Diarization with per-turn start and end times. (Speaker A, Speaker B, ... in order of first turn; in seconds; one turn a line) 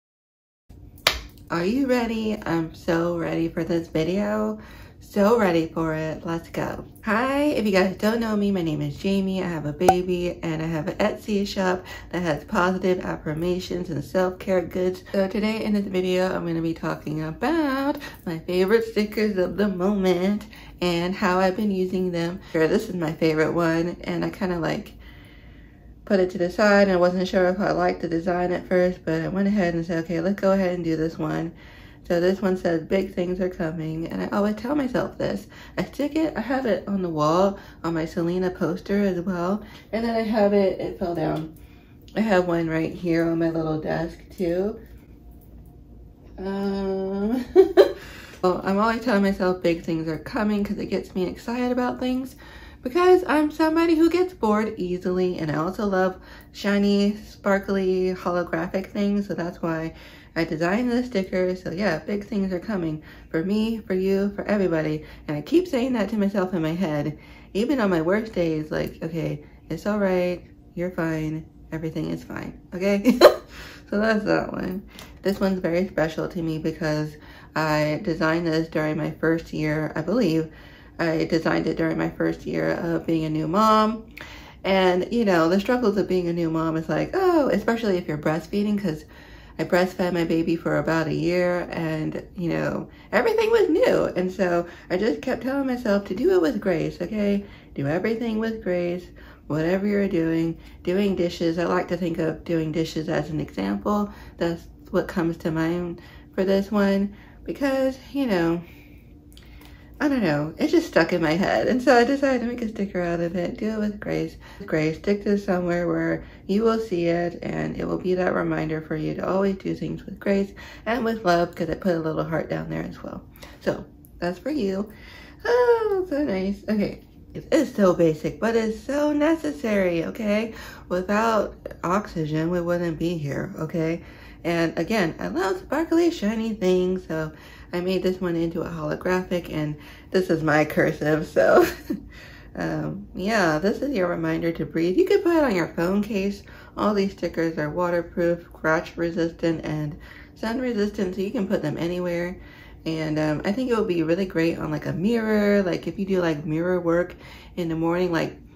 Speaker A: 1.5-25.0
Speaker A: 26.1-31.5
Speaker A: 32.0-41.5
Speaker A: 42.2-44.8
Speaker A: 46.4-47.9
Speaker A: 48.4-84.0
Speaker A: 84.6-89.0
Speaker A: 89.6-108.6
Speaker A: 110.0-124.9
Speaker A: 125.4-141.7
Speaker A: 142.6-158.4